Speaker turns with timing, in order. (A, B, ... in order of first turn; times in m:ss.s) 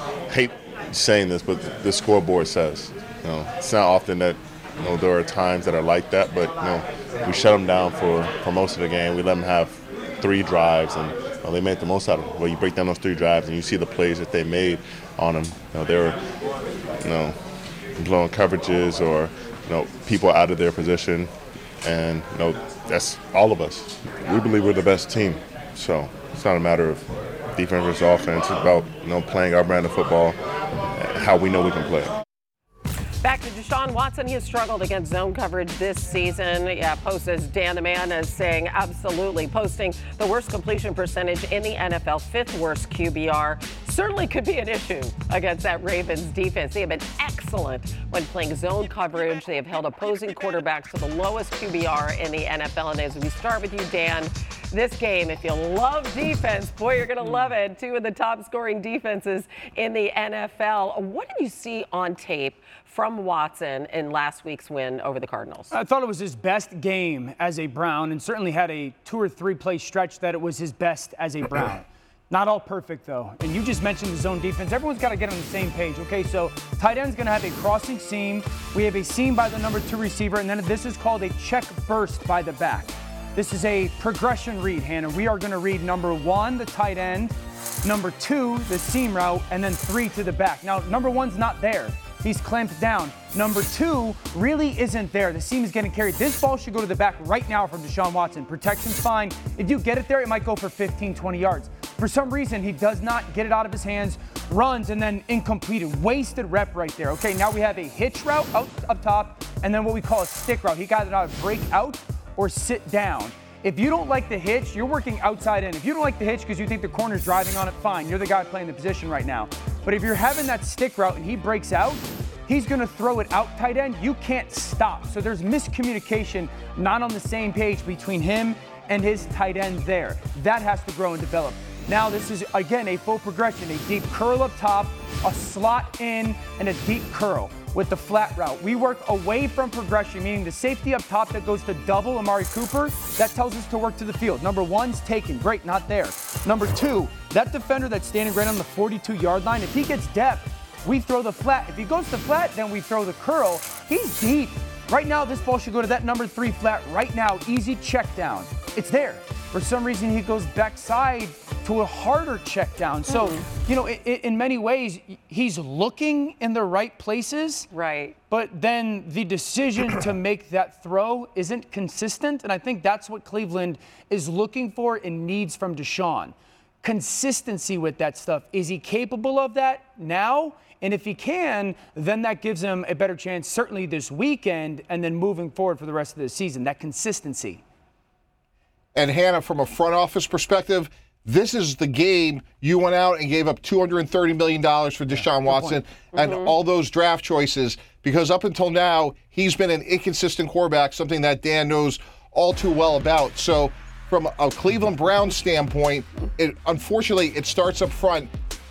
0:00.3-0:16.2 A
0:17.0-0:30.4 A
0:30.9-0:32.2 A
0:33.2-1:05.7 B
0:57.2-0:57.5 C
1:05.7-2:47.7 C
2:43.1-2:43.4 B
2:47.7-2:48.2 B
2:48.3-3:07.6 C
3:08.9-3:28.3 D
3:15.1-3:15.8 C
3:16.1-3:16.5 B